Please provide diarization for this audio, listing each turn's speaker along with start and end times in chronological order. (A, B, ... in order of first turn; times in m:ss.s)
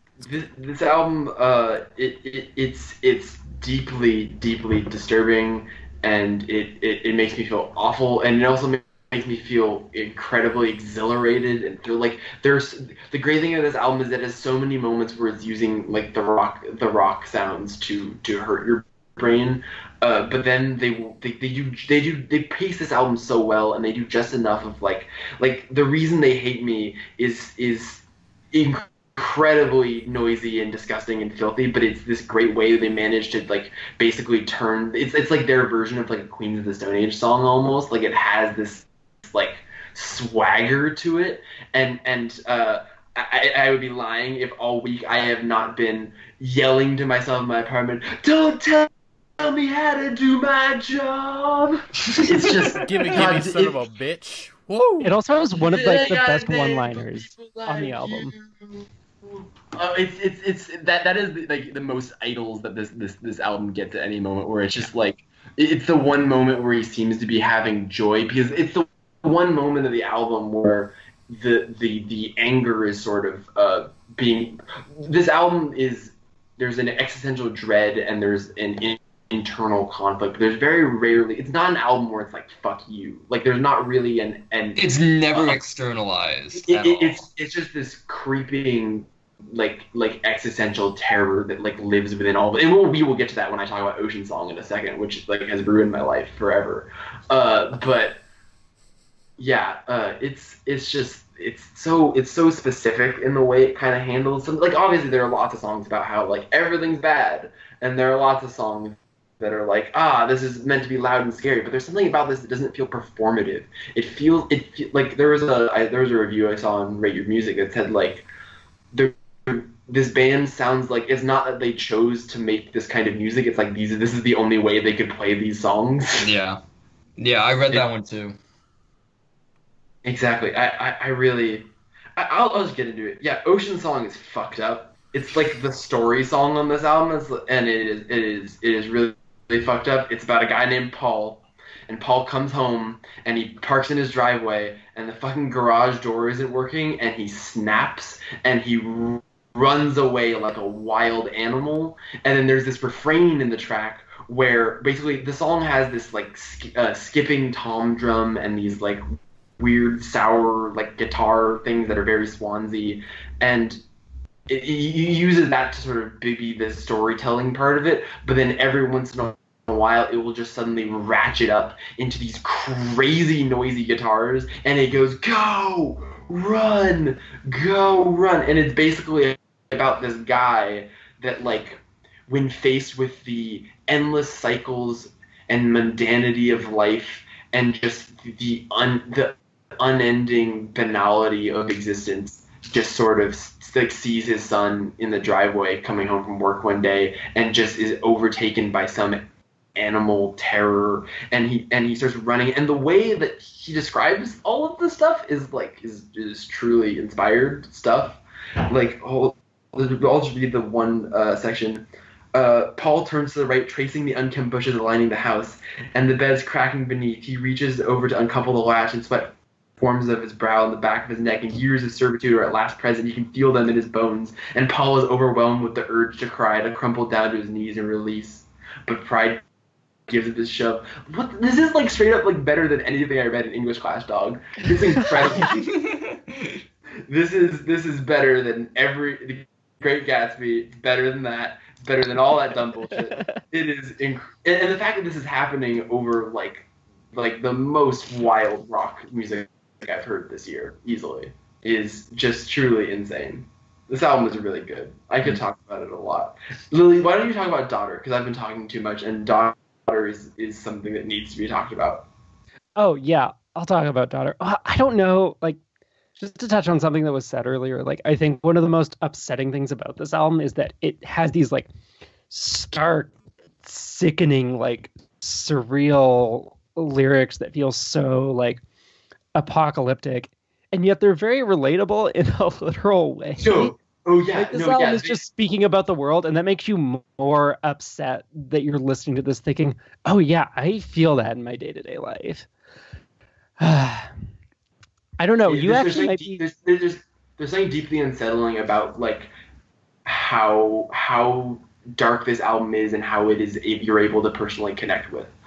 0:00.2-0:53.8 A
0:52.0-0:53.2 B
0:52.8-0:55.1 C
0:55.0-0:58.3 D
0:55.5-1:25.6 A
1:24.8-1:27.2 B
1:26.5-1:38.2 A
1:39.4-1:58.3 A
1:58.9-2:06.3 A
2:06.2-2:06.6 B
2:07.2-2:08.4 B
2:10.0-2:39.0 A
2:39.6-2:43.8 A
2:44.5-3:19.2 A
3:19.8-3:49.4 A
3:50.1-3:55.6 A
3:55.1-3:56.6 B
3:57.1-4:22.1 A
4:22.8-4:25.6 D
4:26.2-4:31.7 D
4:32.3-4:38.6 D
4:39.4-4:43.7 D
4:43.4-4:45.2 A
4:44.4-4:52.5 D
4:53.6-4:54.1 D
4:55.2-4:56.4 D
4:55.4-4:59.3 A
5:00.0-5:05.3 A